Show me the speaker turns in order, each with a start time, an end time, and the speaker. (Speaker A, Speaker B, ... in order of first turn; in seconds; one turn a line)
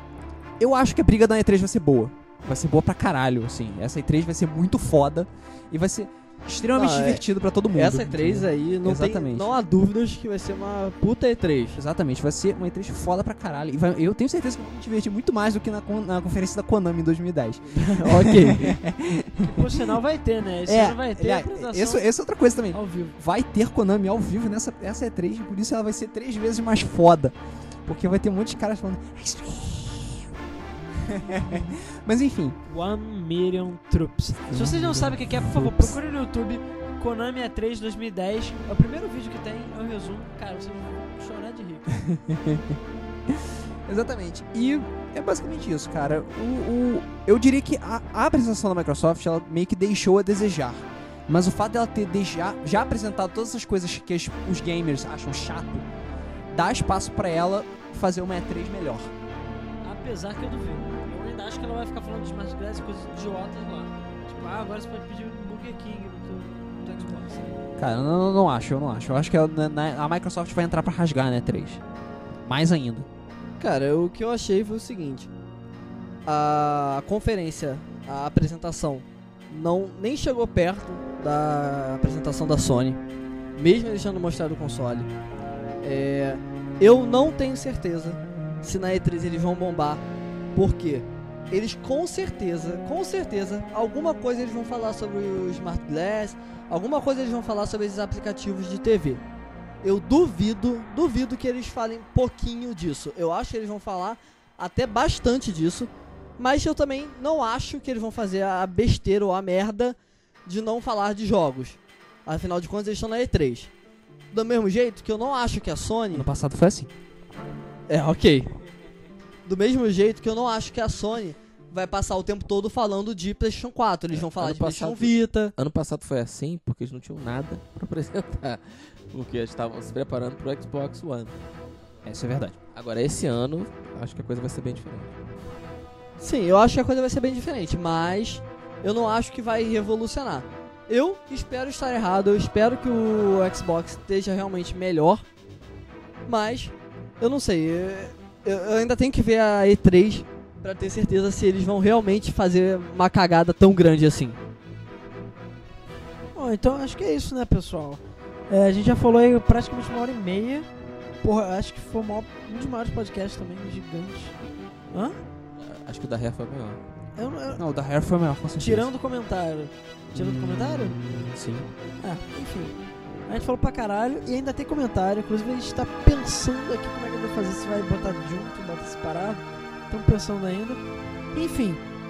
Speaker A: 0.6-9.5
Speaker B: 6.8-11.8
Speaker A: 11.8-19.9
Speaker C: 17.7-18.7
Speaker B: 18.0-18.7
Speaker C: 19.4-22.1
Speaker A: 20.7-27.4
Speaker C: 22.7-23.1
Speaker A: 27.9-30.3
Speaker A: 31.0-32.6
Speaker C: 32.7-41.9
Speaker A: 34.5-36.0
Speaker A: 42.0-42.8
Speaker A: 43.9-55.9
Speaker A: 56.5-59.1
Speaker C: 59.8-67.6
Speaker A: 67.8-71.8
Speaker A: 72.5-73.1
Speaker B: 73.6-75.3
Speaker B: 76.3-83.0
Speaker B: 83.6-85.1
Speaker B: 85.8-90.0
Speaker B: 90.6-99.2
Speaker B: 99.8-113.7
Speaker B: 114.3-116.3
Speaker A: 116.1-116.9
Speaker B: 117.9-118.5
Speaker B: 119.5-125.5
Speaker D: 124.1-131.3
Speaker A: 132.1-132.6
Speaker D: 132.7-135.1
Speaker B: 136.2-145.2
Speaker B: 146.3-154.4
Speaker C: 156.3-160.7
Speaker C: 161.2-164.3
Speaker C: 164.9-165.2
Speaker D: 165.6-166.8
Speaker C: 167.2-167.6
Speaker A: 167.6-168.9
Speaker C: 168.6-170.9
Speaker A: 170.1-171.7
Speaker C: 172.0-172.8
Speaker C: 173.3-180.8
Speaker C: 181.3-181.8